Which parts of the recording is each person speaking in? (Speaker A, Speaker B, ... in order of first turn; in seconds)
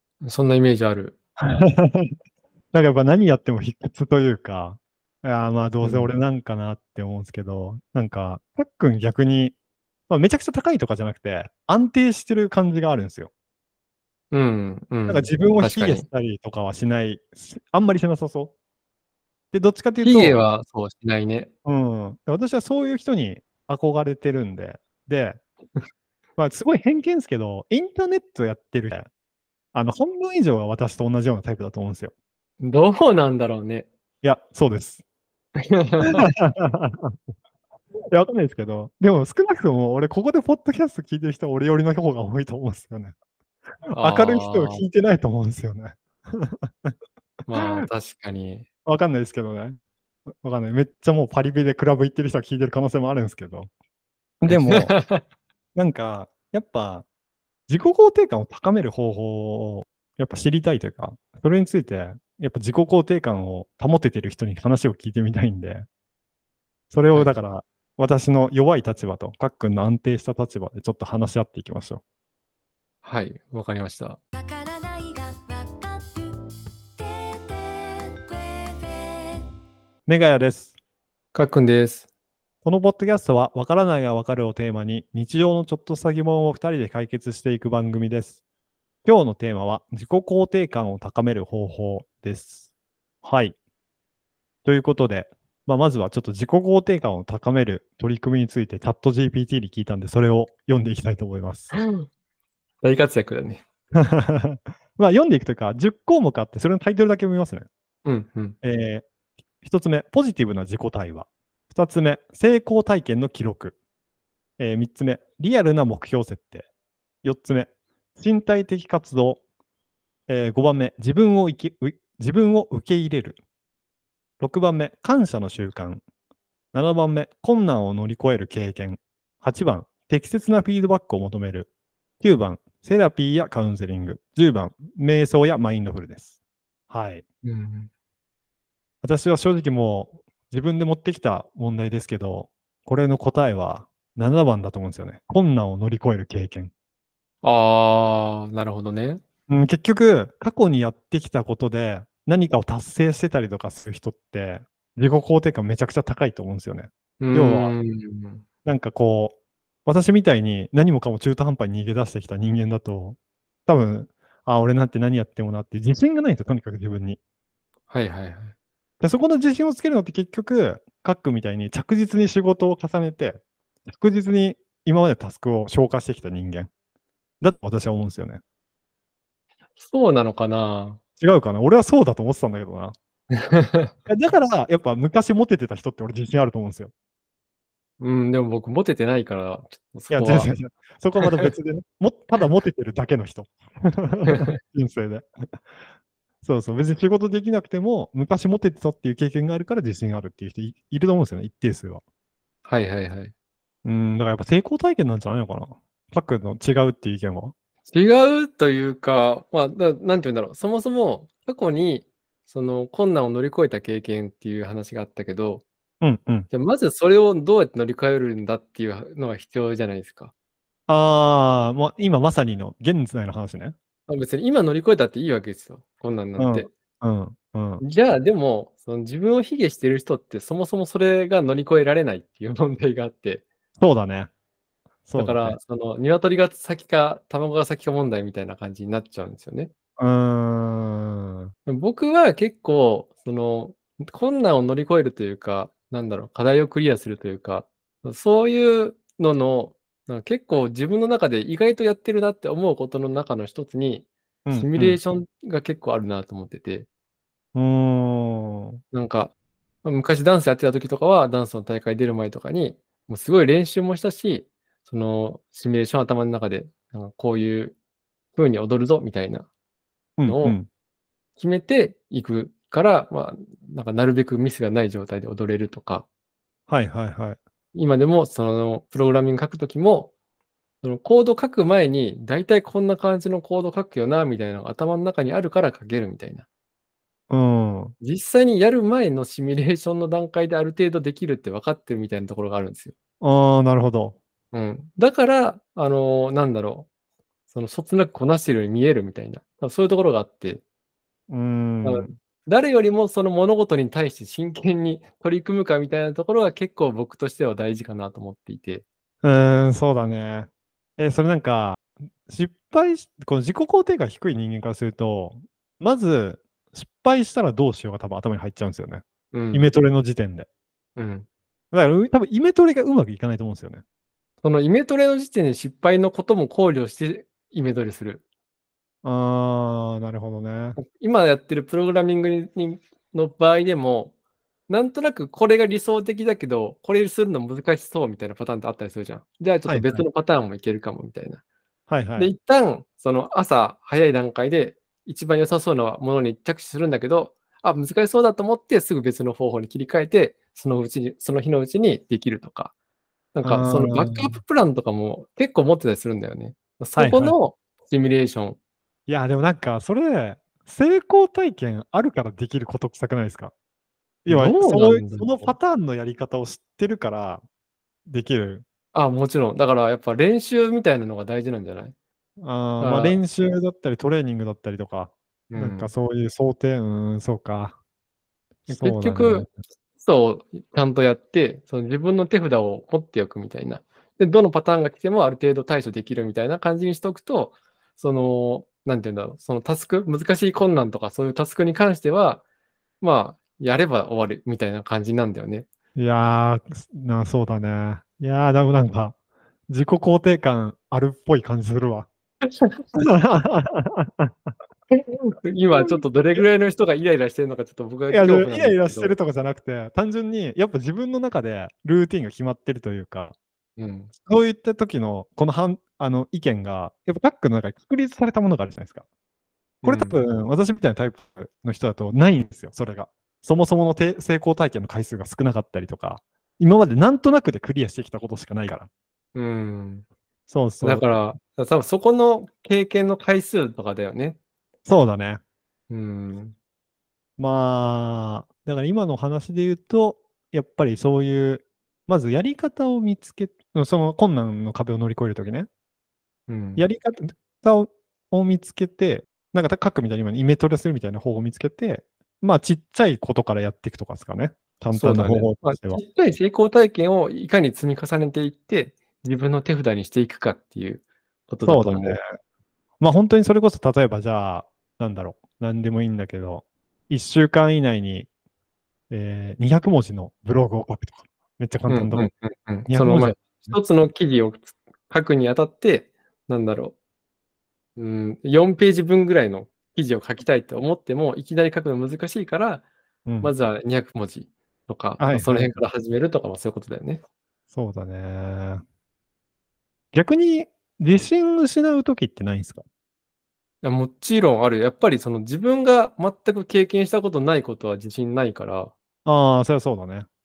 Speaker A: 0.2-1.2, 5.8-6.1, 14.3-16.1, 20.0-21.5, 32.6-33.9, 35.7-36.3, 43.9-44.8, 47.5-48.7, 54.5-55.2, 73.0-74.2, 81.3-82.1, 101.7-102.1, 102.8-103.6, 108.1-108.6, 137.4-137.9, 147.4-149.2, 157.2-158.4, 167.9-168.6, 179.8-181.0, 183.3-183.9, 188.0-190.5, 191.2-191.5, 202.7-203.3, 207.9-215.6, 216.5-220.3, 224.1-226.7, 227.8-233.4, 235.2-239.7, 241.7-256.9, 258.9-267.8, 268.4-269.5, 270.2-270.6, 271.4-276.1, 277.8-280.1, 280.8-286.5, 288.0-292.9, 294.5-296.9, 297.5-300.6, 301.8-308.9, 319.3-319.7, 321.0-321.3, 324.4-328.2, 330.8-334.1, 334.7-341.4, 342.2-352.7, 353.4-358.6, 364.3-365.5, 368.9-371.9, 372.8-373.2, 375.5-375.9, 378.7-392.4, 393.0-395.7, 404.9-409.2, 413.8-414.1, 419.8-420.2, 429.4-430.1, 430.8-434.4, 435.9-436.6, 446.5-446.8, 454.9-462.2, 471.9-476.9, 478.0-482.9, 483.4-487.2, 493.8-498.9
Speaker B: 1.4-2.1, 2.7-9.6, 10.1-13.3, 15.1-18.5, 19.5-20.4, 21.7-25.4, 26.4-29.1, 29.7-32.1, 34.2-35.0, 36.1-37.2, 38.1-43.1, 44.0-46.9, 47.5-47.9, 48.9-49.8, 50.4-53.7, 54.4-55.0, 55.8-57.0, 57.7-65.9, 66.9-72.0, 80.1-80.7, 82.6-88.4, 89.0-92.7, 93.2-93.6, 94.7-101.7, 104.0-107.7, 108.6-109.1, 109.6-113.8, 114.6-116.7, 117.2-119.4, 120.3-123.4, 124.4-126.0, 126.7-131.7, 132.2-136.3, 136.9-137.2, 139.0-146.7, 149.5-157.8, 158.7-167.2, 169.0-176.7, 177.4-178.4, 181.2-182.9, 184.1-186.9, 190.1-195.3, 196.4-202.0, 203.8-207.5, 216.0-216.5, 220.9-223.8, 226.4-227.8, 233.8-234.3, 235.1-235.6, 240.0-241.5, 254.5-255.0, 257.6-258.8, 270.2-270.7, 276.7-277.4, 287.3-287.9, 293.2-294.2, 301.3-302.2, 309.2-320.5, 321.7-323.8, 329.0-330.8, 339.7-340.1, 341.9-342.3, 353.4-354.4, 357.0-357.4, 359.1-363.5, 364.3-367.4, 368.1-368.6, 372.4-377.8, 378.7-379.5, 396.0-399.1, 399.7-402.1, 403.0-404.5, 405.8-406.4, 408.1-413.4, 414.1-419.0, 419.8-428.9, 430.5-431.2, 434.9-435.4, 437.4-445.7, 446.8-456.0, 461.6-462.2, 463.0-468.3, 469.1-472.3, 472.9-473.8, 483.3-483.5, 485.2-485.7, 487.7-488.8, 490.1-492.8, 499.3-500.3
Speaker C: 74.4-76.4, 77.0-79.2